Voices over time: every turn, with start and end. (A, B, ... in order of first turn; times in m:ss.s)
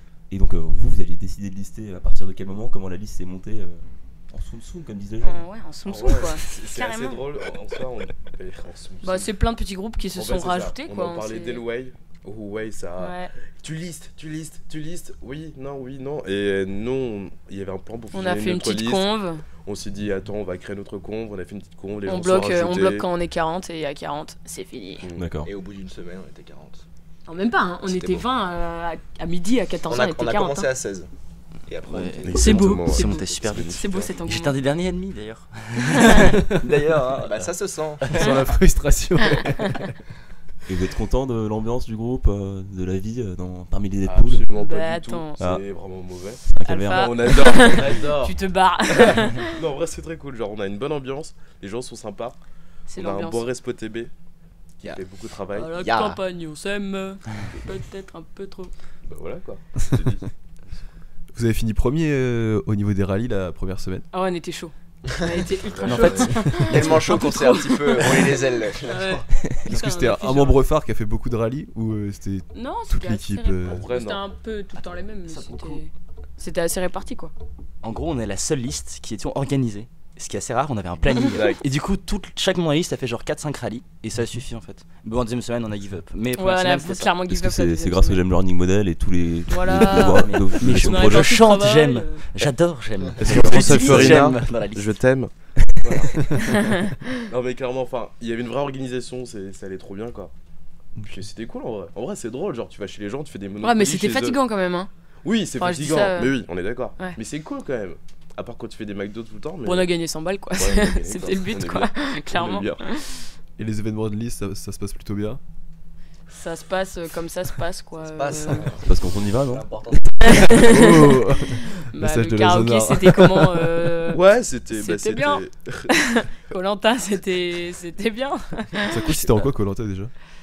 0:00.3-0:05.5 A
0:05.2-0:07.3 B
0:05.8-0:09.3 C
0:09.0-0:11.7 B
0:10.1-0:23.1 C
0:13.0-0:13.3 B
0:18.1-0:19.4 B
0:22.0-0:25.1 B
0:25.0-0:25.3 C
0:25.2-0:25.5 A
0:25.4-0:26.8 D
0:27.2-0:30.7 B
0:27.8-0:28.3 C
0:29.8-0:31.1 D
0:31.6-0:33.8 D
0:31.8-0:38.3 E
0:32.2-0:34.2 C
0:32.3-0:34.6 B
0:35.9-0:36.4 B
0:37.2-0:38.1 D
0:38.1-0:39.9 F
0:40.7-0:44.5 A
0:44.0-0:52.4 C
0:44.5-0:45.4 B
0:45.4-0:45.7 A
0:46.4-0:47.5 A
0:46.6-0:49.7 B
0:52.9-0:53.5 B
0:52.9-0:54.1 C
0:54.8-0:55.8 C
0:55.5-0:58.7 B
0:55.7-0:56.2 D
0:59.0-1:00.3 C
1:01.3-1:04.0 F
1:04.1-1:10.6 B
1:05.5-1:06.6 C
1:05.8-1:06.5 E
1:06.5-1:09.2 D
1:06.6-1:06.9 F
1:09.6-1:13.9 F
1:12.5-1:17.3 B
1:13.7-1:14.2 C
1:14.8-1:15.8 E
1:17.8-1:27.1 E
1:21.3-1:21.6 C
1:26.3-1:28.2 B
1:27.3-1:31.4 A
1:29.5-1:32.4 B
1:29.9-1:35.0 E
1:33.2-1:34.2 F
1:33.2-1:35.3 C
1:35.8-1:36.2 C
1:36.4-1:37.0 B
1:37.3-1:40.3 C
1:41.1-1:44.4 C
1:43.6-1:44.9 B
1:45.2-1:50.0 C
1:45.5-1:46.4 B
1:49.6-1:53.3 B
1:50.5-1:52.8 C
1:53.6-1:55.4 F
1:56.3-1:58.7 B
1:58.0-2:00.6 D
1:58.8-2:00.6 A
2:00.3-2:01.1 B
2:00.7-2:03.7 F
2:01.9-2:09.2 B
2:04.1-2:05.9 C
2:08.9-2:10.1 F